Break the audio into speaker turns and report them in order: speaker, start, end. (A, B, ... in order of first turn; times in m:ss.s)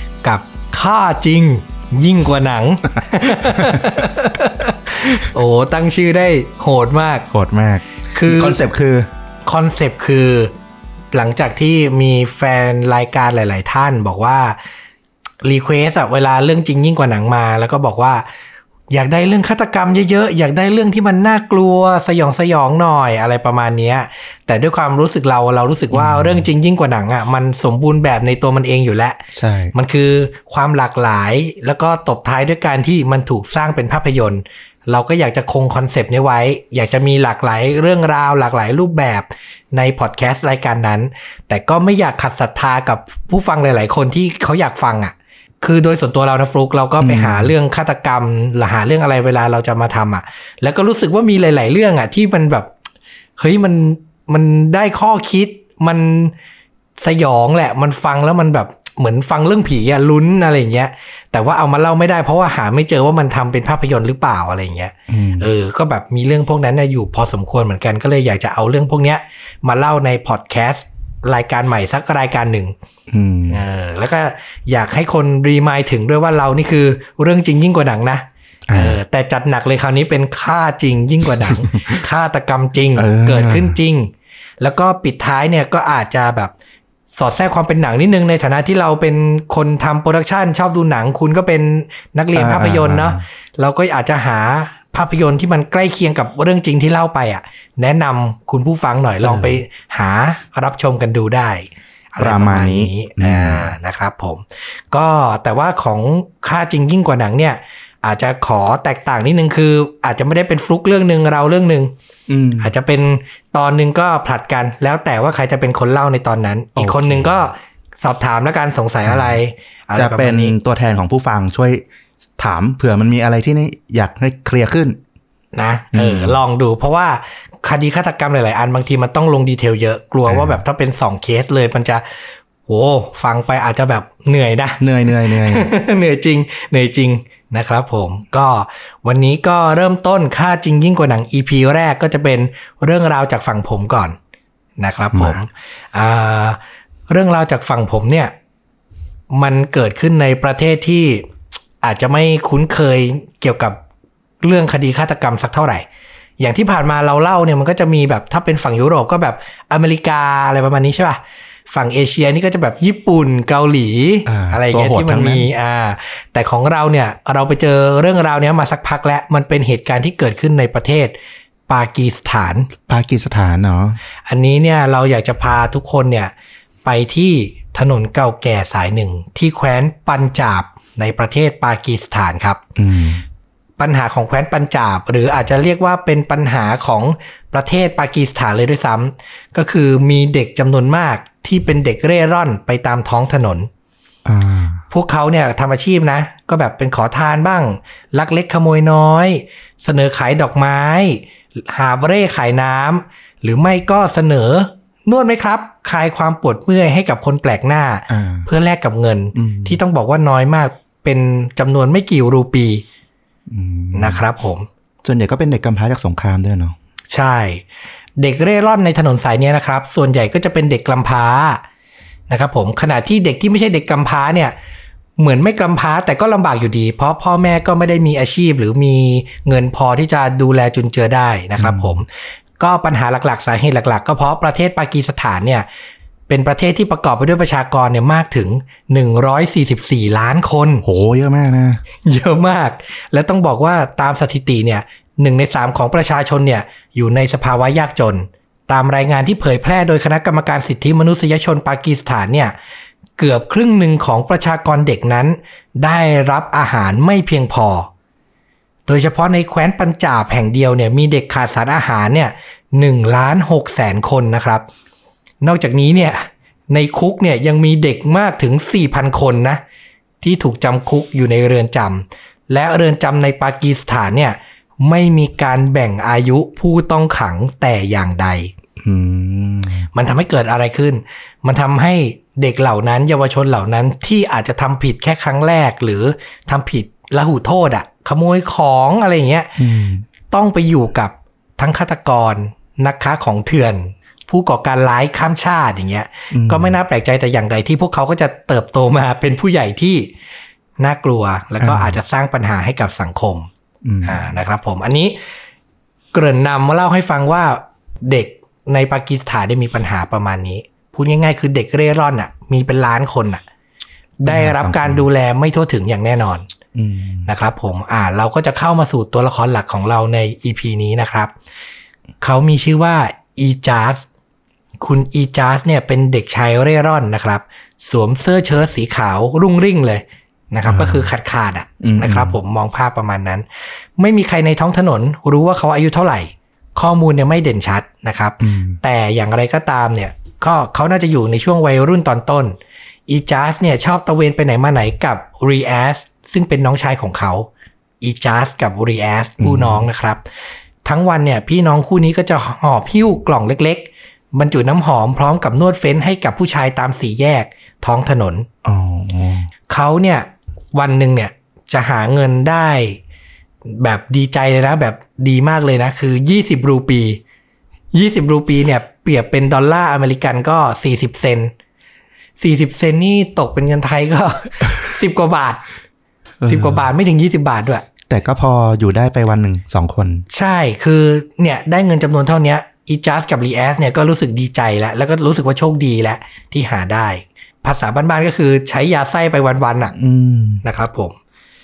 0:00.2-0:07.3 A
0:07.3-0:09.1 B
0:08.1-0:08.6 A
0:09.5-0:10.5 A
0:11.1-0:14.6 A
0:15.4-0:18.3 A
0:18.9-0:52.7 A
0:25.9-0:26.5 B
0:29.3-0:29.7 B
0:47.0-0:47.5 B
0:53.4-0:56.3 A
0:57.0-1:12.7 A
1:05.1-1:05.5 B
1:13.1-1:13.6 B
1:13.5-1:26.5 A
1:18.7-1:19.0 B
1:21.5-1:22.0 B
1:23.0-1:23.8 B
1:27.2-1:51.9 A
1:32.3-1:33.2 B
1:39.2-1:39.6 B
1:42.2-1:43.7 B
1:52.3-1:52.7 B
1:52.6-2:00.5 A
1:56.8-1:57.4 B
1:59.0-1:59.4 B
2:00.0-2:01.8 B
2:02.4-2:05.0 B
2:05.5-2:24.2 A
2:05.9-2:06.4 B
2:10.3-2:10.6 B
2:14.8-2:15.7 B
2:24.8-2:26.6 A
2:27.1-2:28.3 A
2:29.3-2:31.3 A
2:31.8-2:33.8 A
2:34.4-2:35.8 A
2:36.4-2:51.2 A
2:44.3-2:45.5 B
2:51.7-2:52.7 A
2:52.9-2:54.0 B
2:54.3-2:56.3 A
2:56.8-3:02.6 A
3:02.8-3:03.2 B
3:03.8-3:13.7 A
3:14.2-3:14.8 B
3:14.9-3:32.8 A
3:28.1-3:28.5 B
3:29.4-3:29.8 B
3:33.5-3:34.2 B
3:33.9-3:34.7 A
3:35.0-3:36.8 B
3:37.1-3:37.6 A
3:38.2-3:41.6 A
3:42.3-3:44.6 A
3:45.2-3:55.7 A
3:51.6-3:52.0 B
3:56.3-4:00.8 A
4:00.8-4:01.8 B
4:02.0-4:12.5 A
4:13.2-4:17.9 A
4:18.9-4:24.6 A
4:25.4-4:29.6 A
4:30.2-4:38.5 A
4:38.8-4:39.9 B
4:39.9-4:49.6 A
4:49.6-4:50.1 B
4:50.3-5:00.1 A
4:56.3-4:56.8 B
5:00.8-5:03.5 A
5:01.6-5:02.0 B
5:03.8-5:04.3 B
5:04.0-5:05.2 A
5:06.1-5:13.4 A
5:14.2-5:16.5 A
5:14.3-5:15.1 B
5:16.8-5:17.3 B
5:17.3-5:21.3 A
5:22.2-5:24.1 A
5:24.8-5:33.5 A
5:30.7-5:31.1 B
5:31.8-5:32.4 B
5:34.0-5:42.6 A
5:38.4-5:38.8 B
5:43.1-5:47.5 A
5:48.0-5:50.2 A
5:49.4-5:49.9 B
5:50.8-5:58.5 A
5:58.6-5:59.5 B
5:59.7-6:03.0 A
6:03.7-6:07.2 A
6:07.9-6:11.5 A
6:12.4-6:15.6 A
6:16.4-6:16.9 B
6:16.5-6:17.8 A
6:18.1-6:20.3 B
6:20.3-6:30.0 A
6:30.0-6:30.6 B
6:30.6-6:31.2 A